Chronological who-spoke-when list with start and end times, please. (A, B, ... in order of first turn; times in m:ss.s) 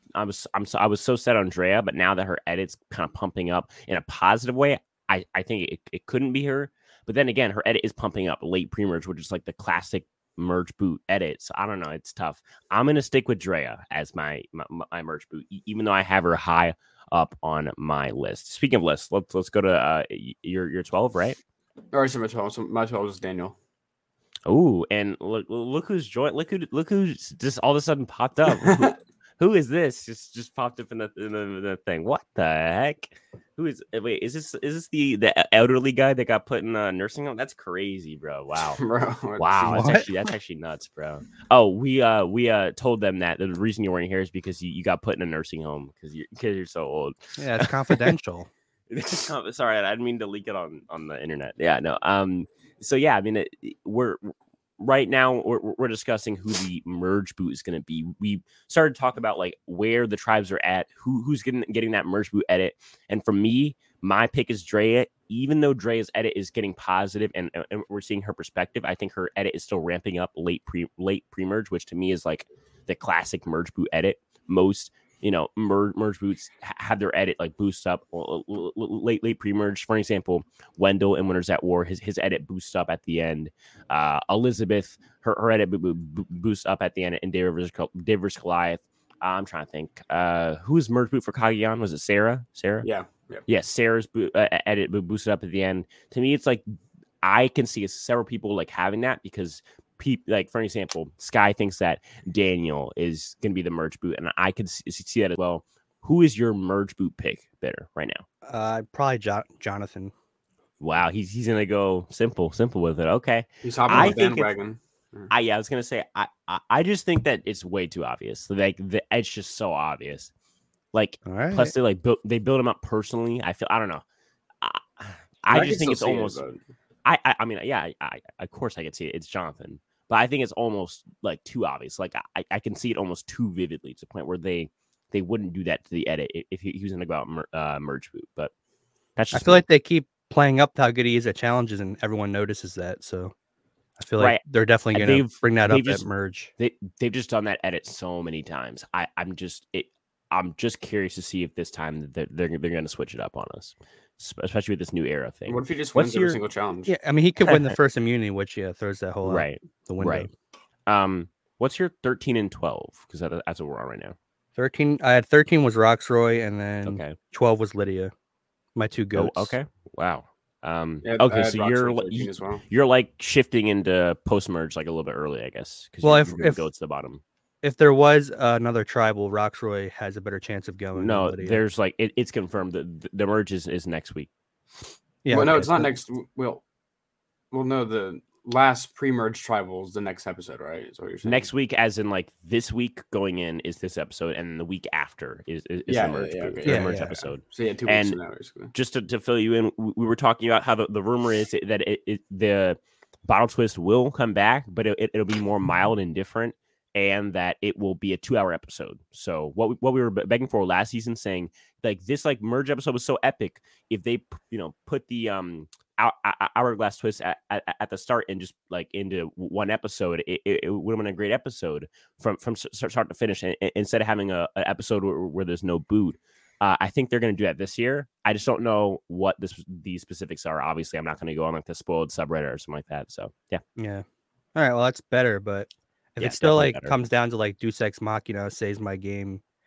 0:00.1-0:21.4 A
0:21.9-0:23.6 B
0:24.4-0:38.8 A
0:28.5-0:28.9 B
0:38.8-0:40.0 B
0:39.4-0:48.1 A
0:39.7-0:40.1 C
0:47.4-0:48.5 C
0:48.9-1:32.9 A
1:32.8-1:33.4 B
1:33.4-1:36.6 A
1:37.2-1:48.2 A
1:48.4-1:50.1 C
1:50.8-1:54.5 A
1:53.6-1:55.3 B
1:55.3-2:00.3 A
2:00.9-2:04.0 A
2:01.2-2:01.7 C
2:04.6-2:06.4 A
2:05.5-2:06.6 B
2:07.0-2:18.5 A
2:19.2-2:19.6 A
2:19.3-2:23.3 C
2:24.0-2:26.5 C
2:24.2-2:26.0 A
2:26.6-2:36.4 A
2:35.5-2:36.9 B
2:36.9-2:40.3 C
2:37.4-2:37.7 A
2:39.2-2:40.3 A
2:40.9-2:44.2 A
2:44.6-2:48.1 C
2:46.8-2:47.2 A
2:48.7-2:49.5 C
2:49.1-2:57.2 A
2:51.0-2:52.6 B
2:56.0-2:56.6 C
2:57.6-3:01.6 C
3:00.9-3:04.3 A
3:05.2-3:05.9 C
3:05.3-3:06.6 B
3:07.5-3:11.5 B
3:11.2-3:18.2 A
3:15.9-3:18.7 B
3:16.6-3:17.1 C
3:18.7-3:53.6 A
3:53.8-3:59.4 C
3:56.2-3:56.9 A